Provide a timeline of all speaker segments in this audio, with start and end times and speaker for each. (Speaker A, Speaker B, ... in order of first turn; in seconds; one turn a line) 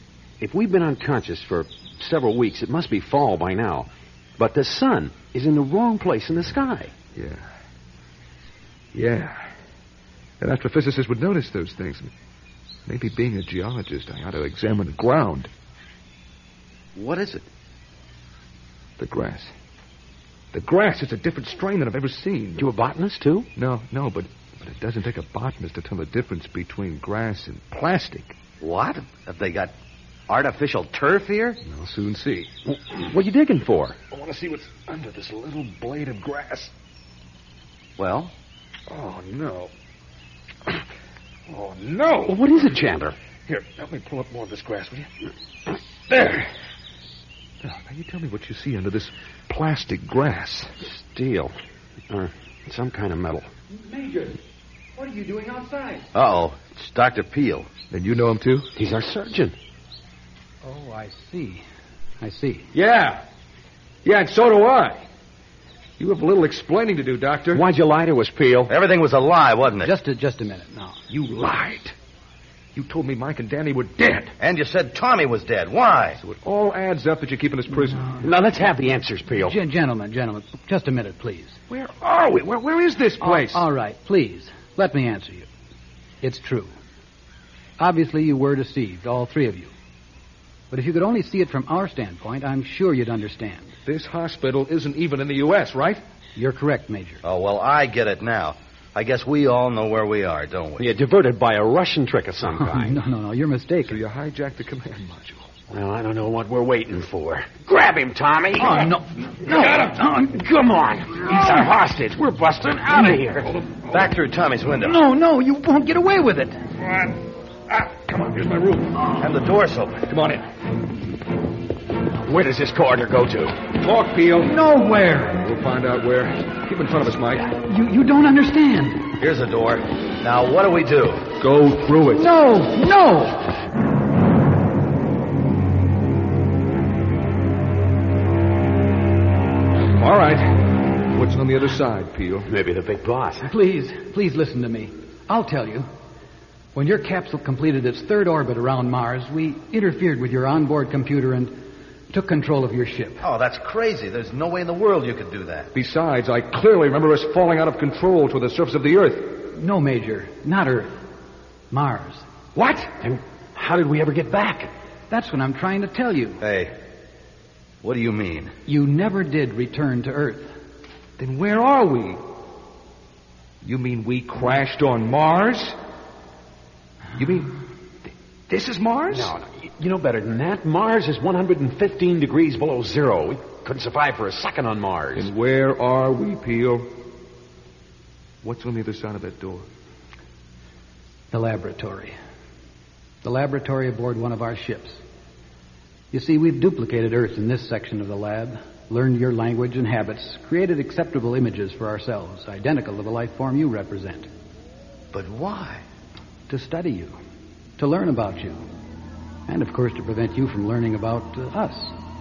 Speaker A: 0.4-6.9
Speaker B: 7.1-7.5
Speaker B: 8.9-9.5
Speaker B: 10.4-12.1
Speaker B: 12.9-15.5
Speaker C: 16.9-17.4
Speaker B: 19.0-19.5
Speaker B: 20.5-22.6
Speaker A: 22.6-23.5
Speaker B: 23.6-28.3
Speaker C: 28.6-29.7
Speaker C: 30.3-31.6
Speaker B: 31.6-32.5
Speaker A: 32.7-33.9
Speaker B: 34.1-36.7
Speaker C: 38.0-38.3
Speaker B: 38.9-39.7
Speaker B: 41.5-42.5
Speaker A: 42.3-43.1
Speaker B: 43.5-45.1
Speaker B: 46.1-46.5
Speaker B: 47.6-50.7
Speaker A: 50.8-51.5
Speaker A: 52.1-53.5
Speaker D: 53.9-54.4
Speaker D: 55.0-56.1
Speaker C: 56.1-57.7
Speaker B: 57.9-58.7
Speaker A: 58.8-59.5
Speaker D: 60.6-61.6
Speaker D: 62.2-62.7
Speaker B: 62.7-63.2
Speaker B: 64.0-65.0
Speaker B: 66.0-67.6
Speaker A: 67.5-68.7
Speaker C: 68.7-69.9
Speaker D: 69.8-71.0
Speaker B: 71.1-71.9
Speaker B: 72.7-74.3
Speaker C: 74.4-76.2
Speaker B: 76.2-78.1
Speaker A: 78.2-79.5
Speaker D: 79.4-81.6
Speaker B: 81.7-83.7
Speaker D: 83.2-85.5
Speaker D: 86.2-86.7
Speaker D: 87.8-89.7
Speaker D: 90.7-93.7
Speaker B: 93.8-96.0
Speaker D: 96.3-97.2
Speaker C: 97.2-100.9
Speaker A: 100.8-103.0
Speaker D: 102.5-104.0
Speaker B: 103.8-105.5
Speaker A: 105.7-108.7
Speaker D: 108.5-110.6
Speaker B: 109.5-110.0
Speaker A: 110.2-113.5
Speaker D: 111.3-111.6
Speaker B: 113.4-114.1
Speaker C: 113.9-115.0
Speaker D: 114.8-116.6
Speaker B: 116.8-117.2
Speaker B: 117.7-119.2
Speaker C: 119.2-120.0
Speaker B: 120.1-120.5
Speaker A: 122.2-123.6
Speaker B: 123.7-124.6
Speaker D: 124.4-125.5
Speaker B: 125.3-127.5
Speaker D: 127.6-129.2
Speaker C: 129.2-131.3
Speaker B: 131.4-132.3
Speaker D: 132.1-133.5
Speaker B: 139.9-142.5
Speaker A: 142.5-143.5
Speaker D: 143.4-145.9
Speaker D: 146.7-151.6
Speaker D: 152.1-153.2
Speaker C: 153.2-155.7
Speaker B: 155.7-159.4
Speaker D: 159.5-161.0
Speaker D: 161.7-162.2
Speaker B: 162.5-162.9
Speaker A: 163.0-164.7
Speaker D: 165.1-166.4
Speaker C: 166.4-166.7
Speaker C: 167.8-168.5
Speaker D: 168.7-170.5
Speaker B: 171.2-172.2
Speaker B: 173.6-175.8
Speaker B: 177.2-177.6
Speaker B: 178.5-179.3
Speaker A: 179.1-185.3
Speaker B: 185.1-186.9
Speaker B: 188.4-189.7
Speaker D: 191.3-192.1
Speaker D: 193.2-195.0
Speaker D: 196.1-204.3
Speaker C: 205.1-205.8
Speaker D: 206.5-207.2
Speaker D: 207.8-208.6
Speaker D: 209.5-211.9